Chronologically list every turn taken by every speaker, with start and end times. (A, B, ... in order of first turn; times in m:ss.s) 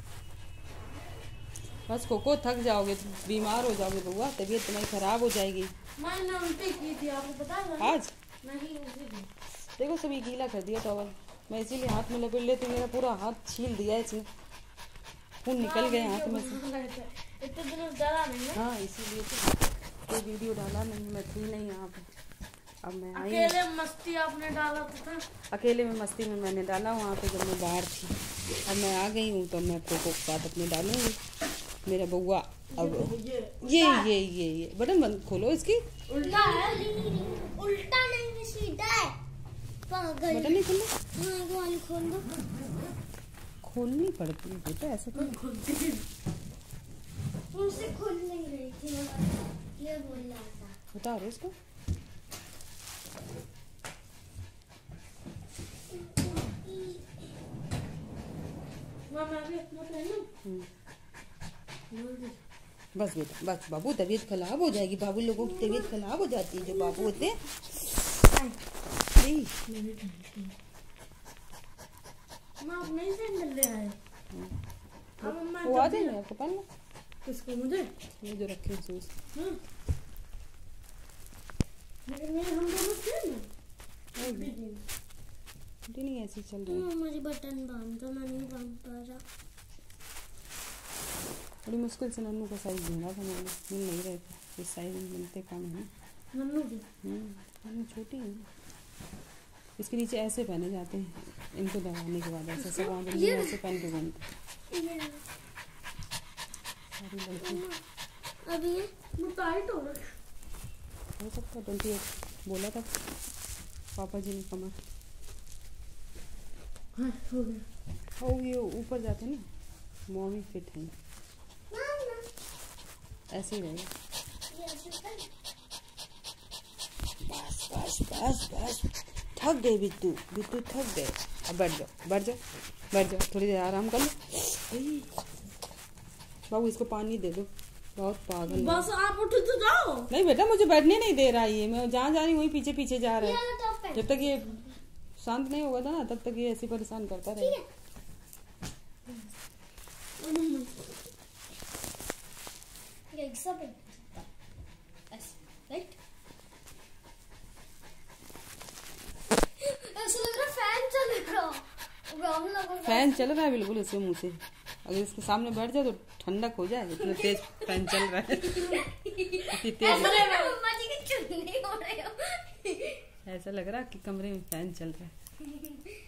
0:01.9-0:05.7 A
0:06.0-0:09.3 B
0:07.8-0:08.1 A
0:09.8-0:14.3 A
0:15.4-0:16.6 A
0:15.6-0:18.6 B
0:18.6-0:22.1 A
0:22.8-0:23.6 A
0:23.2-0:25.2 B
0:25.5-0:31.2 A
0:31.9-0:35.8 A
0:32.7-0:34.1 B
0:36.1-0:36.8 B
0:36.2-0:39.2 C
0:39.9-0:40.6 C
0:40.3-0:40.9 A
0:41.1-0:42.3 C
0:43.6-0:45.4 A
0:45.1-0:46.0 B
0:47.5-0:50.8 C
0:50.9-0:51.5 A
0:55.9-0:57.1 C
0:59.1-1:00.3 B
1:01.9-1:02.4 B
1:03.0-1:07.4 A
1:05.4-1:05.9 C
1:06.6-1:07.4 C
1:09.1-1:09.5 A
1:09.7-1:10.5 B
1:12.6-1:14.0 B
1:15.2-1:16.7 A
1:15.2-1:16.2 B
1:17.2-1:17.9 B
1:18.2-1:19.1 A
1:19.3-1:19.6 B
1:22.1-1:23.5 B
1:24.2-1:24.5 A
1:24.2-1:24.8 B
1:25.9-1:26.9 A
1:26.7-1:29.2 C
1:31.6-1:35.9 A
1:36.3-1:36.8 B
1:37.0-1:38.5 A
1:39.8-1:44.2 A
1:42.6-1:43.7 C
1:44.7-1:45.2 C
1:47.0-1:47.6 A
1:47.4-1:47.8 C
1:48.4-1:48.9 C
1:49.1-1:50.2 B
1:51.2-1:52.9 A
1:54.0-1:54.8 A
1:57.0-1:57.6 B
1:58.2-1:59.5 A
2:00.1-2:00.9 A
2:01.7-2:02.3 C
2:03.3-2:03.9 A
2:04.5-2:05.3 C
2:07.2-2:12.4 A
2:12.9-2:15.1 A
2:16.5-2:18.9 A
2:18.5-2:20.1 B
2:20.1-2:23.4 A
2:23.2-2:24.6 C
2:23.9-2:24.6 A
2:25.2-2:27.6 A
2:27.4-2:27.7 C
2:30.2-2:30.6 B
2:33.1-2:34.3 C
2:35.1-2:36.0 C
2:39.6-2:43.3 C
2:42.8-2:48.8 A
2:47.0-2:53.1 C
2:49.5-2:50.2 A
2:49.8-2:50.6 B
2:53.3-2:55.1 A
2:55.5-2:55.8 C